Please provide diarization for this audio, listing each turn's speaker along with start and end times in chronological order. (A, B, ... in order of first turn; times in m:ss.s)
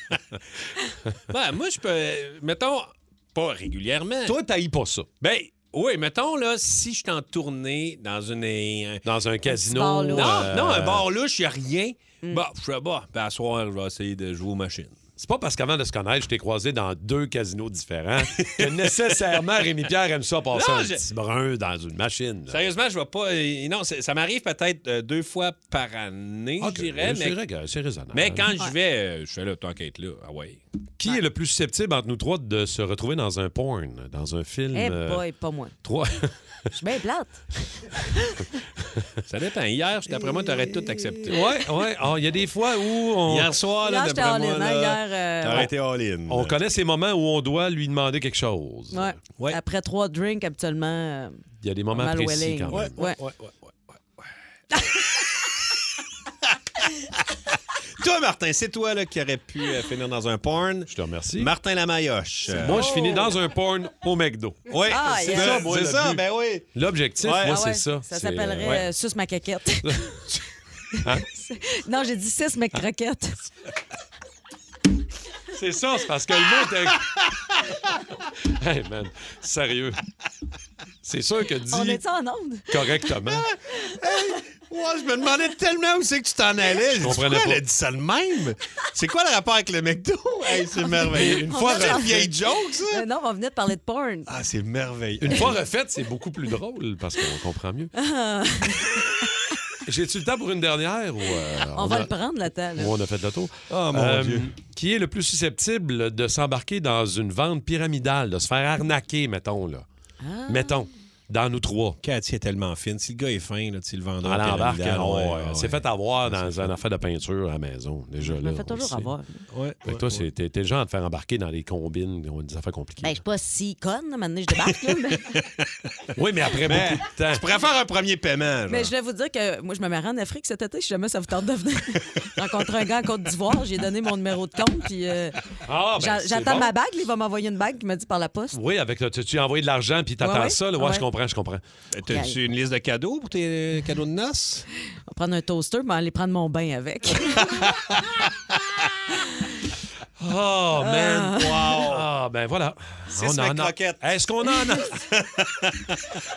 0:01.3-0:04.4 A
0:04.2-0:05.1 B
0:05.2-0:09.0 A
0:09.0-0:11.0 B
0:09.4-0:10.6 C
0:10.1-0:15.0 A
0:15.2-0:22.6 B
0:18.3-0:18.9 A
0:20.5-0:21.1 A
0:22.5-0:27.4 A
0:26.6-0:28.5 B
0:28.1-0:30.6 A
0:31.0-0:35.2 B
0:34.7-0:35.7 C
0:35.8-0:36.3 B
0:36.8-0:37.4 C
0:39.3-0:41.5 A
0:40.9-0:41.4 C
0:41.2-0:43.5 B
0:43.2-0:46.6 A
0:43.8-0:45.7 C
0:46.3-0:49.2 B
0:48.9-0:53.2 C
0:51.6-0:53.1 B
0:52.7-0:53.7 A
0:54.7-0:55.0 C
0:58.0-1:03.2 A
1:00.9-1:01.5 B
1:02.5-1:08.8 B
1:02.6-1:03.3 C
1:04.7-1:07.6 A
1:04.9-1:05.6 C
1:07.4-1:10.2 C
1:09.8-1:10.4 B
1:10.9-1:13.5 C
1:15.5-1:17.2 B
1:18.4-1:20.0 B
1:21.0-1:22.0 B
1:21.7-1:23.2 C
1:22.7-1:23.5 B
1:23.4-1:33.0 A
1:23.7-1:24.3 C
1:27.0-1:27.6 B
1:31.0-1:32.3 C
1:31.1-1:32.3 B
1:32.9-1:34.3 C
1:34.3-1:35.6 A
1:35.2-1:37.9 B
1:38.0-1:39.6 C
1:39.8-1:42.1 B
1:41.7-1:42.9 C
1:42.8-1:49.8 B
1:43.7-1:44.5 A
1:50.2-1:50.8 C
1:50.5-1:52.0 B
1:52.0-1:56.7 A
1:54.2-1:59.1 B
1:58.2-1:59.4 C
1:59.5-2:00.3 A
1:59.8-2:03.2 B
2:03.0-2:05.3 C
2:05.3-2:05.9 A
2:06.2-2:07.4 B
2:06.6-2:08.9 A
2:08.7-2:15.4 C
2:15.6-2:16.7 B
2:16.0-2:18.6 C
2:18.5-2:21.6 B
2:20.2-2:21.0 C
2:21.9-2:24.6 A
2:22.1-2:22.4 C
2:25.1-2:27.7 C
2:29.1-2:29.6 C
2:30.2-2:35.0 B
2:30.8-2:31.8 C
2:31.4-2:32.0 A
2:33.1-2:34.1 A
2:34.9-2:36.2 A